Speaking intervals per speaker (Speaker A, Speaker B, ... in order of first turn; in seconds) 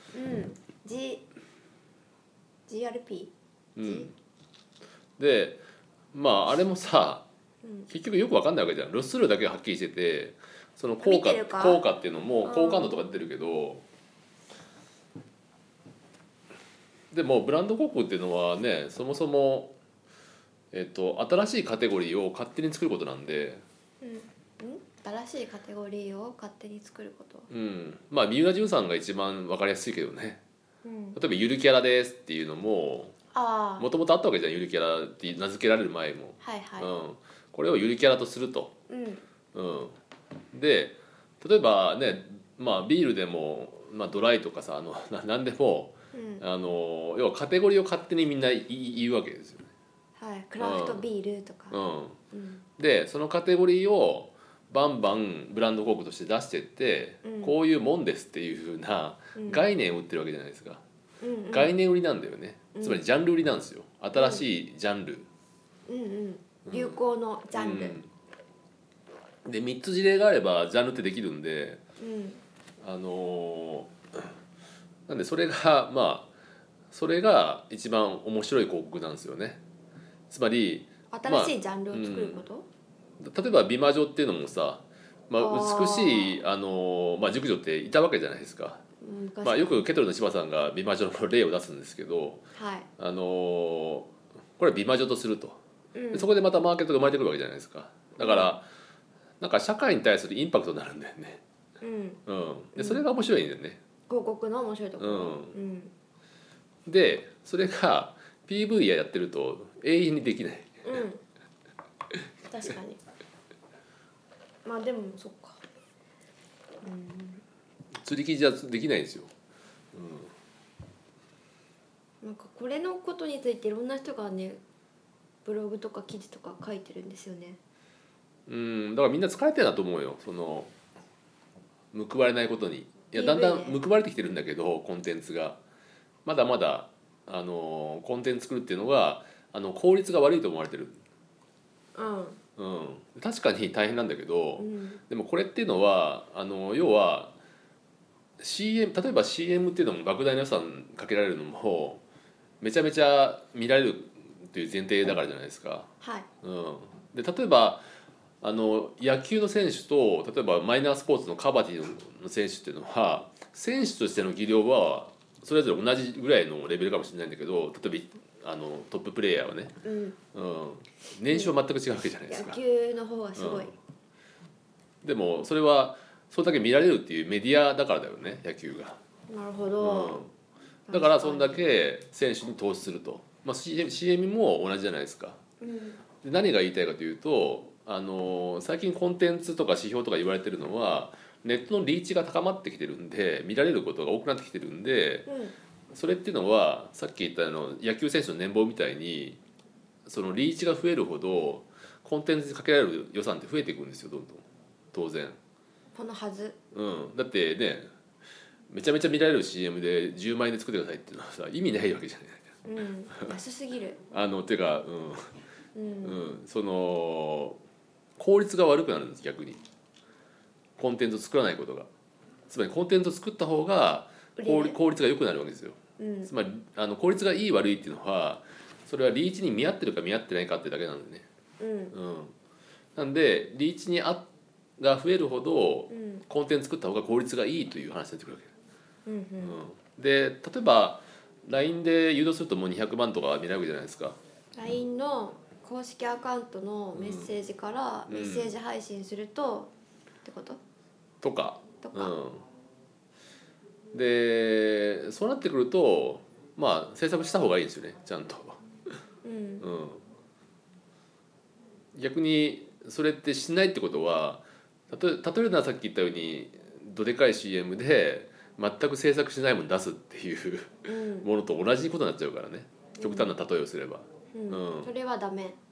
Speaker A: 0.1-1.2, 2.7-4.1, 7.6-7.9, 11.0-11.8, 12.4-13.1, 24.0-27.5, 30.8-31.2, 33.3-33.9, 36.4-36.9, 38.9-39.2, 46.1-46.4, 50.2-51.8, 52.3-52.6, 57.2-57.6, 59.3-59.6, 61.2-61.7, 62.8-63.0, 64.1-64.4, 65.9-68.0, 72.0-72.4, 81.1-82.7, 85.3-86.4, 89.0-89.9, 92.5-92.9, 95.9-96.3, 98.2-98.5, 101.8-102.2, 102.7-103.0, 104.1-105.9, 110.8-111.2, 112.4-113.0, 114.6-115.6, 116.8-117.4, 122.2-124.6, 125.4-127.6, 133.1-133.8, 141.9-142.4, 144.6-145.0, 156.0-156.3, 169.8-170.2, 171.3-171.5, 172.3-173.7, 179.3-180.2, 180.9-181.7, 185.6-186.0, 195.2-195.5, 205.9-206.6, 212.6-214.0, 215.7-216.2, 224.4-224.8, 226.0-226.3, 231.6-231.9, 235.9-236.2, 239.1-239.6, 244.6-249.7, 250.2-250.6, 251.8-252.1, 259.2-259.7, 270.9-271.3, 273.0-273.3, 274.3-275.6
Speaker B: 3.8-4.1, 5.2-7.3, 7.9-13.8, 17.1-19.7, 20.7-23.6, 27.5-30.4, 31.1-33.1, 33.8-38.7, 39.5-40.0, 40.5-49.7, 50.6-51.1, 51.7-52.2, 52.8-60.8, 61.5-65.3, 66.7-67.0, 67.5-68.1, 69.4-71.8, 72.8-74.3, 75.1-76.3, 76.9-79.6, 80.3-82.4, 83.2-88.8, 89.4-92.5, 93.0-95.6, 96.1-98.7, 99.4-101.4, 102.2-103.8, 105.0-105.5, 106.8-111.0, 118.0-119.3, 119.9-120.3, 128.5-130.7, 131.9-135.6, 136.2-141.0, 142.6-147.3, 148.4-152.0, 152.6-155.9, 156.4-157.8, 158.4-169.7, 170.3-172.6, 173.3-173.7, 175.0-179.0, 179.8-180.3, 180.9-185.4, 186.2-195.3, 195.9-199.4, 200.1-205.4, 206.7-207.9, 208.7-212.6, 214.1-215.3, 216.0-217.6, 218.2-219.6, 220.8-221.9, 222.5-231.2, 231.9-232.3, 232.9-234.2, 234.8-238.5, 239.4-244.2, 246.9-247.3, 248.1-248.5, 251.2-252.4, 253.9-258.6, 259.6-260.0, 261.9-274.9